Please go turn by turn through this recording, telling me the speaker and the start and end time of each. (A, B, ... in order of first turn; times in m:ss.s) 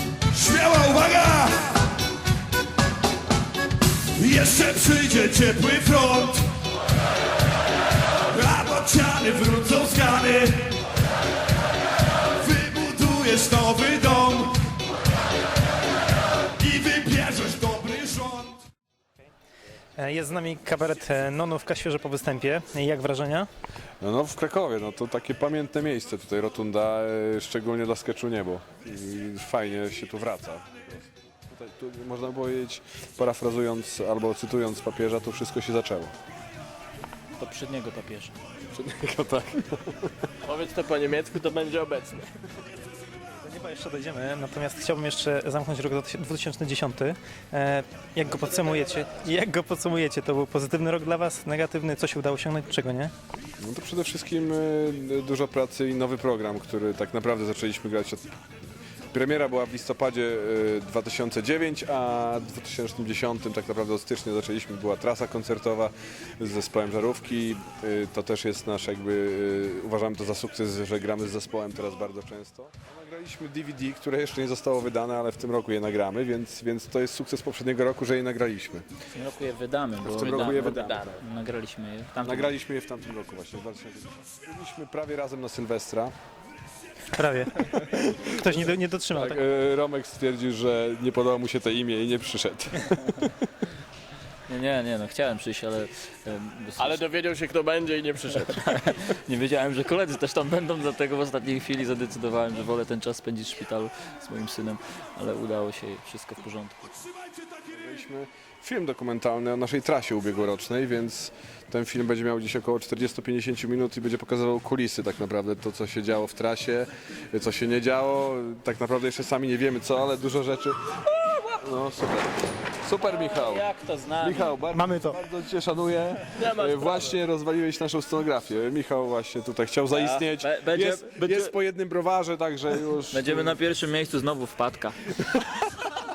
0:00.3-0:01.8 A
0:04.1-0:06.5 A
0:08.3-0:10.7 A
0:12.4-0:14.7 A
0:16.6-0:18.6 A
0:20.0-0:23.5 B
0:24.0-0:36.1 C
0:37.4-0:38.3 D
0:38.7-0:40.3 C
0:40.4-0:42.3 E
0:43.4-0:53.1 B
0:53.6-0:58.3 C
0:59.1-1:18.8 C
1:19.1-1:22.5 D
1:20.0-1:21.2 C
1:20.2-1:21.2 E
1:22.2-1:26.1 C
1:27.1-1:29.4 B
1:27.9-1:28.5 C
1:29.1-1:33.5 C
1:34.5-1:37.0 D
1:36.8-1:38.8 E
1:38.5-1:47.0 D
1:47.6-2:03.7 C
2:03.0-2:04.6 D
2:04.2-2:13.6 C
2:04.7-2:05.2 B
2:06.3-2:07.2 E
2:09.9-2:11.5 D
2:13.1-2:15.2 D
2:15.1-2:15.6 C